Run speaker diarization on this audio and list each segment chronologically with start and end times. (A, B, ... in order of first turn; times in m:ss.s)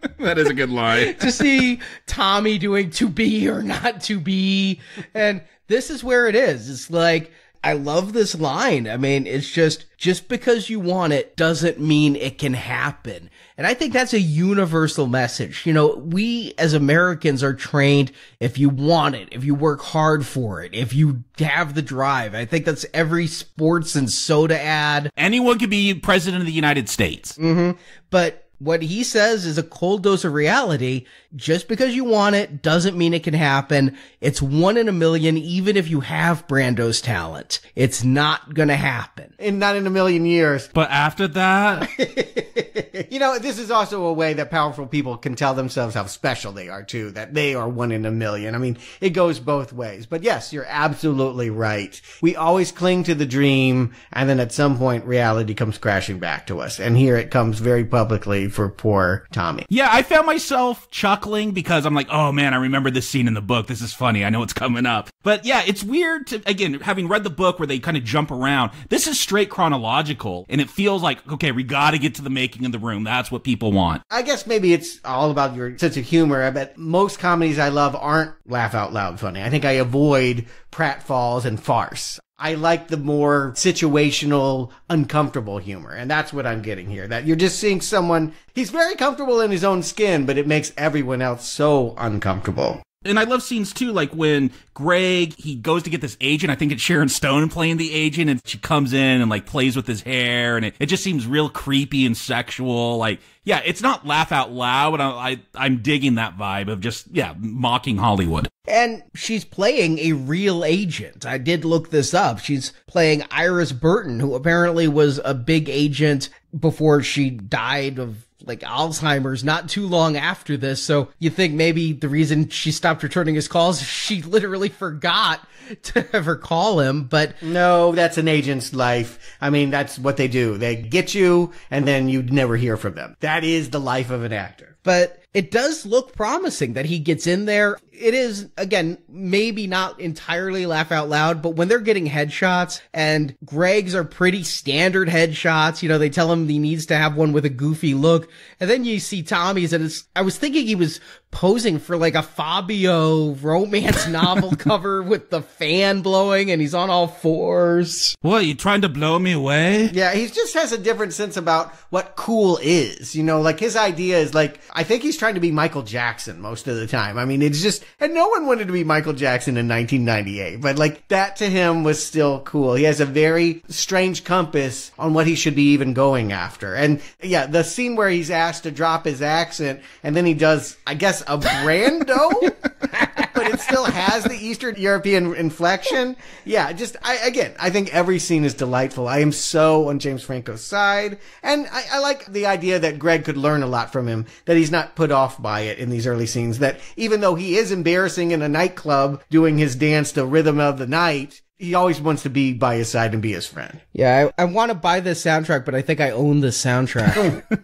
0:00.2-0:01.4 A
0:00.9-0:25.1 B
0:25.2-0:27.4 A
0:27.4-0:39.3 B
0:39.4-0:40.7 C
0:40.7-0:41.9 A
0:42.0-0:59.7 C
0:59.7-1:14.0 A
1:14.1-1:32.8 C
1:33.0-1:48.5 A
1:48.7-2:07.4 B
2:07.4-2:14.7 C
2:14.8-2:38.1 B
2:38.2-2:39.9 A
2:39.9-3:02.6 C
3:03.0-3:03.3 B
3:03.3-3:23.8 C
3:23.9-3:27.4 B